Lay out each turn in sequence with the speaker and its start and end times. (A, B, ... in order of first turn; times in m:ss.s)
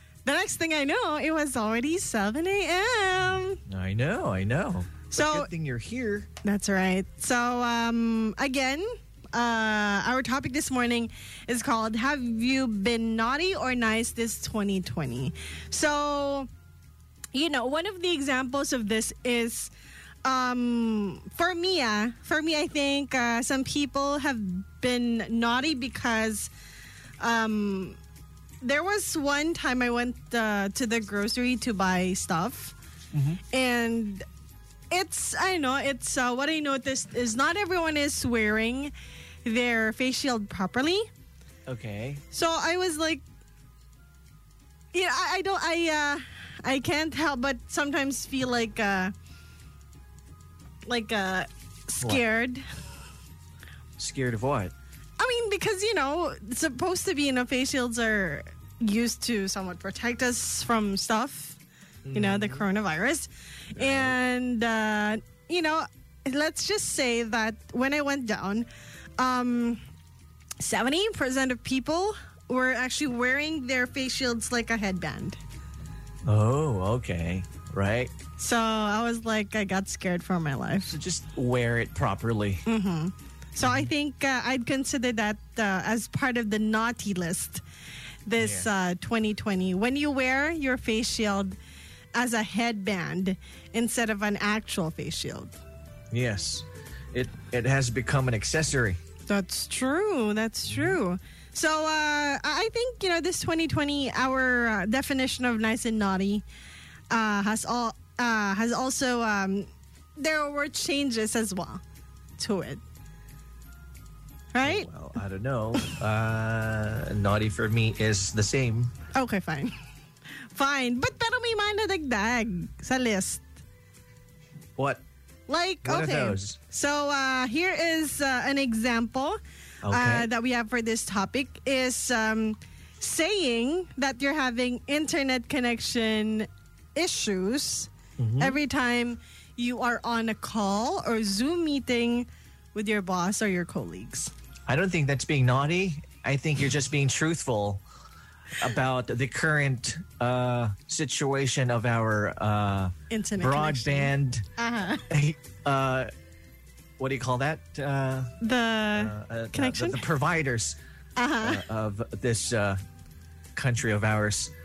0:00.2-0:03.6 A
0:03.7-0:06.3 B
0:05.1-0:05.5 A
0:06.4-0:16.5 A
0:17.3-0:19.7 A
0:20.2-0:26.5 A
0:27.2-0:28.0 A
0:28.6-0:32.7 A
0:33.1-0:33.4 B
0:33.5-0:34.2 A
0:34.9-0:38.9 A
0:39.4-0:41.1 A
0:41.6-0:42.2 B
0:42.3-0:43.2 A
0:44.9-0:49.1 A
0:50.9-0:52.6 A
0:54.0-0:54.7 B
0:55.2-1:01.6 A
1:02.0-1:02.6 B
1:02.1-1:08.7 A
1:03.8-1:04.1 B
1:09.2-1:09.8 A
1:10.6-1:15.4 A
1:16.2-1:18.1 B
1:18.4-1:20.9 A
1:20.8-1:22.6 B
1:22.6-1:27.6 A
1:23.6-1:23.9 B
1:28.2-1:31.6 A
1:28.4-1:28.7 B
1:32.1-1:35.6 A
1:36.1-1:39.0 B
1:39.3-1:46.4 A
1:40.7-1:41.0 B
1:47.1-1:51.8 A
1:52.4-1:52.8 A
1:54.5-1:54.9 A
1:54.6-1:58.9 B
1:59.1-1:59.7 A
2:00.5-2:03.5 A
2:04.8-2:05.0 B
2:05.5-2:09.4 A
2:05.8-2:06.6 B
2:09.8-2:10.3 B
2:09.9-2:24.3 A
2:18.2-2:18.6 B
2:24.7-2:27.8 B
2:28.6-2:34.5 B
2:33.1-2:35.1 A
2:35.1-2:36.1 B
2:37.0-2:38.3 B
2:38.4-2:40.0 A
2:38.9-2:40.8 B
2:41.2-2:41.6 A
2:41.4-2:42.8 B
2:43.5-2:44.5 B